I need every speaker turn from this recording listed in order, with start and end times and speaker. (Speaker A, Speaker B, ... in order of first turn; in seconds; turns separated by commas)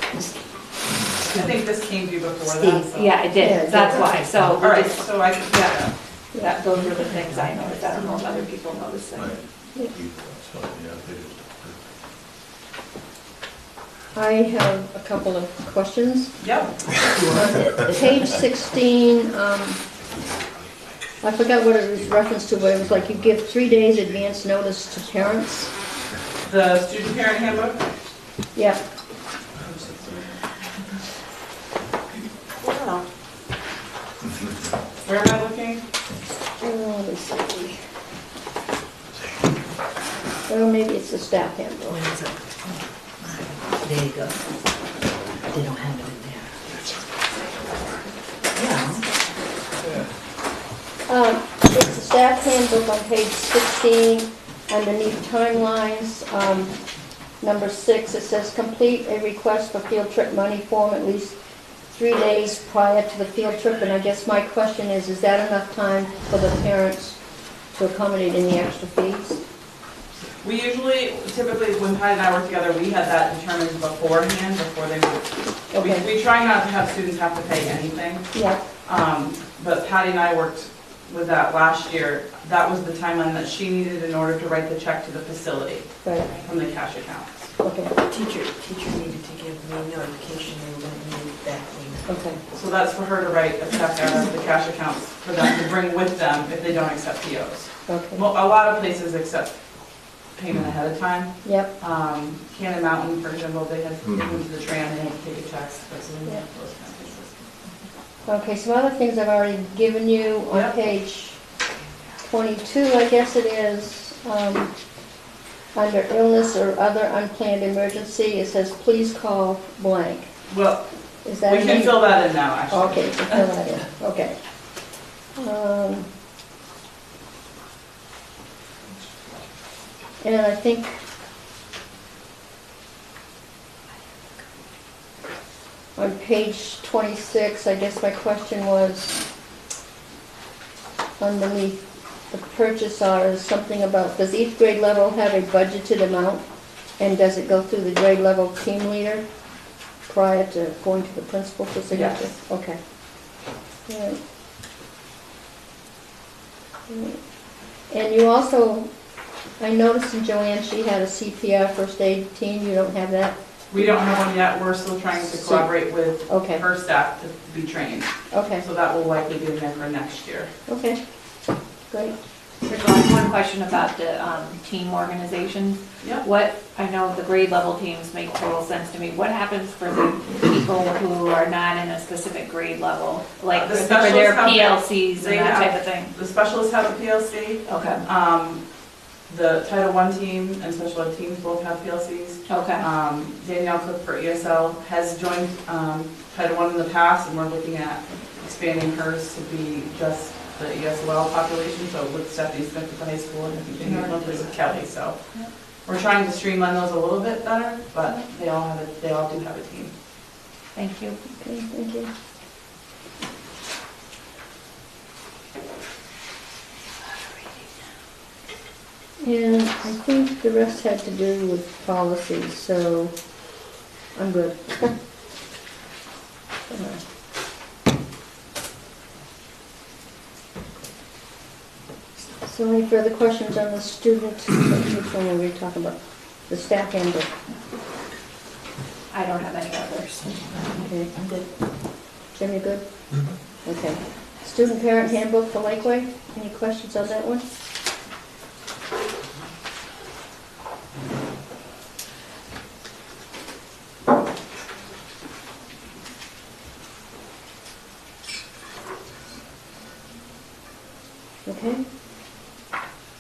Speaker A: 0.1-0.4, Speaker A: 1.0-1.5, Speaker B: 1.2-3.2, Speaker A: 2.5-2.9, Speaker C: 2.9-9.4, Speaker D: 3.4-4.1, Speaker A: 3.7-4.4, Speaker B: 4.6-5.9, Speaker A: 6.8-8.3, Speaker E: 9.1-11.9, Speaker D: 14.1-16.3, Speaker B: 16.4-16.8, Speaker A: 16.9-18.3, Speaker D: 17.3-19.8, Speaker E: 20.3-20.6, Speaker D: 21.2-25.7, Speaker E: 21.8-24.6, Speaker E: 25.1-25.5, Speaker B: 26.4-27.9, Speaker B: 29.6-30.3, Speaker B: 32.6-33.0, Speaker B: 35.0-35.8, Speaker D: 36.6-37.8, Speaker D: 40.5-42.0, Speaker A: 41.9-44.4, Speaker A: 45.5-47.0, Speaker A: 48.5-49.0, Speaker D: 51.1-56.7, Speaker D: 57.4-61.4, Speaker D: 61.9-67.2, Speaker D: 67.7-69.4, Speaker B: 70.4-87.5, Speaker D: 75.7-76.0, Speaker D: 78.3-78.6, Speaker D: 86.0-86.3, Speaker D: 87.6-87.9, Speaker A: 88.1-92.0, Speaker D: 92.0-92.4, Speaker B: 92.5-99.6, Speaker D: 97.9-98.2, Speaker B: 100.3-107.5, Speaker D: 101.4-101.7, Speaker D: 108.3-111.4, Speaker D: 112.2-114.7, Speaker D: 115.7-120.3, Speaker B: 120.5-123.4, Speaker D: 121.2-122.1, Speaker D: 122.7-124.3, Speaker D: 125.3-126.1, Speaker D: 130.2-131.0, Speaker D: 135.9-139.2, Speaker D: 141.2-146.4, Speaker D: 147.0-149.2, Speaker D: 150.1-152.8, Speaker B: 151.9-152.3, Speaker D: 153.9-154.2, Speaker D: 156.9-157.2, Speaker D: 157.9-158.9, Speaker D: 159.6-163.3, Speaker B: 163.7-170.5, Speaker D: 165.2-165.8, Speaker D: 166.3-166.6, Speaker D: 168.3-168.6, Speaker D: 170.7-171.0, Speaker D: 171.9-172.1, Speaker C: 172.7-186.1, Speaker B: 183.5-188.6, Speaker C: 187.7-188.0, Speaker B: 189.3-205.2, Speaker C: 192.5-192.8, Speaker C: 203.8-204.4, Speaker B: 205.8-209.9, Speaker C: 210.7-211.2, Speaker D: 211.4-212.1, Speaker D: 219.2-223.1, Speaker D: 224.1-224.9, Speaker D: 226.7-227.0, Speaker D: 232.4-235.9, Speaker D: 236.5-237.3, Speaker C: 239.1-240.5, Speaker D: 240.8-241.1, Speaker A: 241.2-241.4, Speaker D: 242.3-242.8, Speaker D: 243.6-247.4, Speaker D: 261.4-261.8